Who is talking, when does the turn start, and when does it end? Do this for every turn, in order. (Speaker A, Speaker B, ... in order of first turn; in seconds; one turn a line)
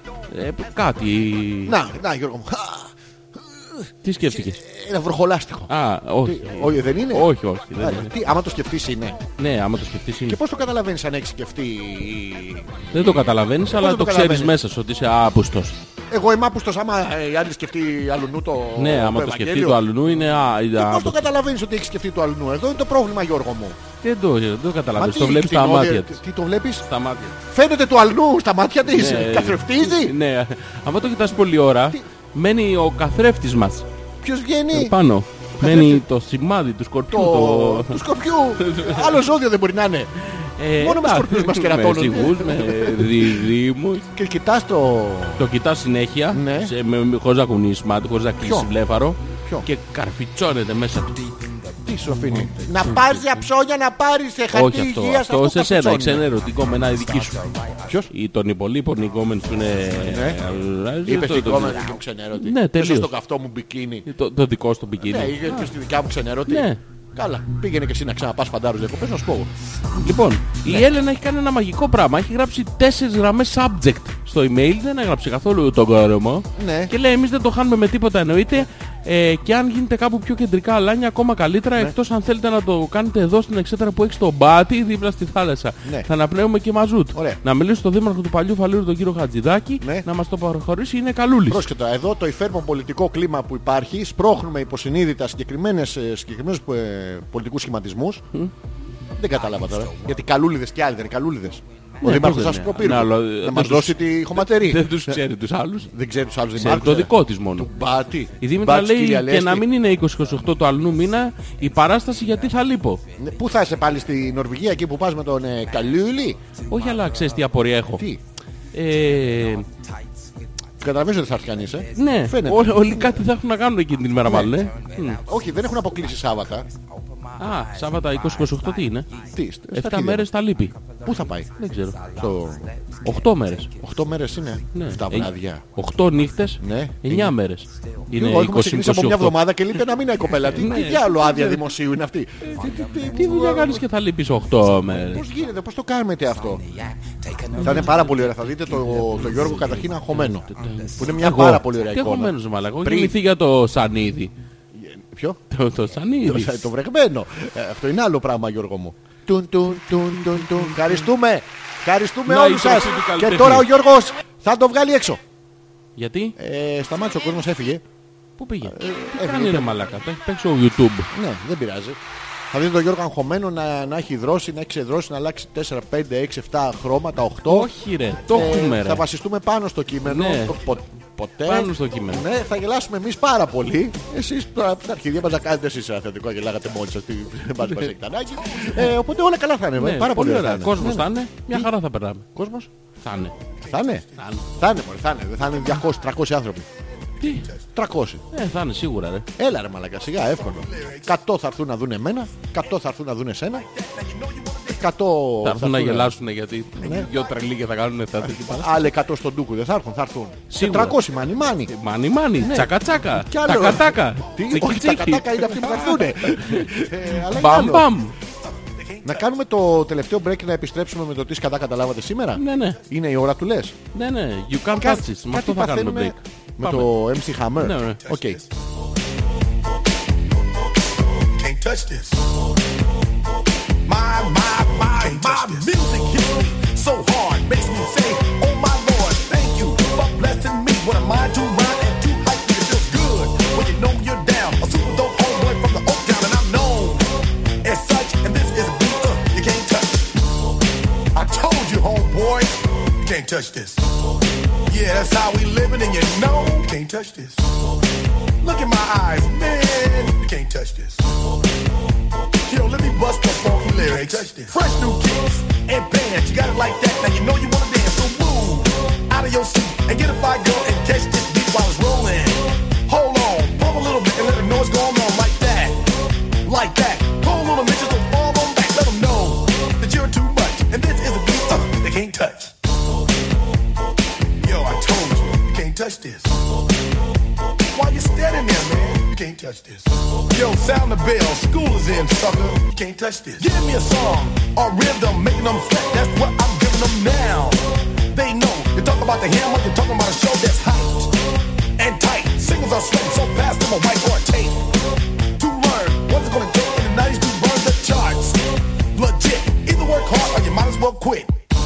Speaker A: 0.3-1.8
Speaker B: 1.7-5.7
Speaker A: 4.0-4.6
Speaker A: 5.7-8.1
Speaker B: 6.2-9.2
Speaker A: 9.4-10.4
Speaker B: 10.3-14.6
Speaker A: 12.9-15.8
Speaker B: 16.1-19.9
Speaker A: 18.8-21.2
Speaker B: 20.8-23.8
Speaker A: 24.0-26.2
Speaker B: 25.0-26.9
Speaker A: 26.8-27.4
Speaker B: 27.4-30.1
Speaker A: 28.9-33.9
Speaker B: 34.2-35.0
Speaker A: 34.7-38.0
Speaker B: 35.6-36.0
Speaker B: 37.1-40.1
Speaker A: 38.6-39.2
Speaker A: 40.3-44.1
Speaker B: 40.8-43.4
Speaker B: 44.1-45.5
Speaker A: 45.4-51.4
Speaker B: 46.3-46.8
Speaker B: 48.4-48.7
Speaker B: 51.8-56.3
Speaker A: 52.3-53.4
Speaker A: 54.5-57.6
Speaker B: 57.8-58.1
Speaker A: 58.1-63.1
Speaker B: 59.9-60.4
Speaker B: 61.0-64.1
Speaker A: 64.1-65.7
Speaker B: 65.0-69.5
Speaker A: 66.5-66.8
Speaker A: 70.0-91.7
Speaker B: 76.6-76.9
Speaker B: 85.8-86.1
Speaker B: 87.1-87.4
Speaker B: 89.8-90.1
Speaker B: 91.5-98.2
Speaker B: 99.2-105.2
Speaker A: 102.0-105.9
Speaker B: 105.9-109.7
Speaker A: 106.5-107.7
Speaker A: 108.4-113.0
Speaker B: 113.2-116.4
Speaker A: 116.7-118.1
Speaker B: 117.9-118.2
Speaker A: 118.7-119.7
Speaker B: 120.8-123.2
Speaker A: 121.9-125.2
Speaker B: 124.2-124.6
Speaker B: 125.2-126.7
Speaker A: 127.4-129.1
Speaker B: 129.3-130.3
Speaker A: 129.7-130.7
Speaker B: 131.0-132.8
Speaker A: 131.6-132.0
Speaker A: 133.0-133.7
Speaker B: 133.7-135.7
Speaker A: 134.7-139.5
Speaker B: 136.6-137.4
Speaker B: 138.1-143.9
Speaker A: 140.4-141.7
Speaker A: 142.4-145.3
Speaker B: 144.8-146.6
Speaker A: 147.5-154.3
Speaker B: 147.6-153.2
Speaker B: 154.7-155.4
Speaker A: 155.5-156.7
Speaker B: 156.1-165.2
Speaker A: 160.6-161.0
Speaker A: 162.3-163.7
Speaker A: 166.0-166.4
Speaker B: 166.4-167.8
Speaker A: 168.4-171.1
Speaker B: 168.7-169.8
Speaker B: 171.1-172.0
Speaker B: 172.5-177.7
Speaker A: 177.5-179.1
Speaker B: 178.3-191.7
Speaker A: 180.1-180.6
Speaker A: 181.4-182.3
Speaker A: 187.6-187.9
Speaker A: 189.8-192.3
Speaker B: 192.3-192.7
Speaker A: 193.0-193.4
Speaker B: 193.6-196.7
Speaker C: 193.6-194.2
Speaker A: 194.2-194.4
Speaker A: 197.2-197.5
Speaker C: 197.2-197.6
Speaker B: 197.8-198.2
Speaker A: 198.3-199.3
Speaker B: 199.4-203.7
Speaker C: 200.4-201.1
Speaker C: 203.7-204.8
Speaker B: 204.7-206.1
Speaker A: 205.4-208.9
Speaker B: 206.8-207.1
Speaker B: 208.2-211.7
Speaker A: 210.5-211.0
Speaker A: 211.7-218.2
Speaker B: 212.4-217.9
Speaker C: 218.6-219.3
Speaker B: 219.0-223.8
Speaker A: 222.4-222.8
Speaker A: 223.9-226.9
Speaker B: 224.7-228.4
Speaker A: 227.6-228.0
Speaker C: 228.1-228.5
Speaker C: 231.3-232.3
Speaker C: 233.9-247.1
Speaker B: 235.0-235.9
Speaker C: 247.6-250.1
Speaker C: 251.1-253.8
Speaker C: 254.7-257.4
Speaker C: 258.4-261.1
Speaker C: 262.5-275.8
Speaker C: 276.4-282.6
Speaker C: 284.4-286.5
Speaker C: 287.6-301.1
Speaker C: 301.8-304.7
Speaker C: 305.4-308.4
Speaker C: 308.9-311.3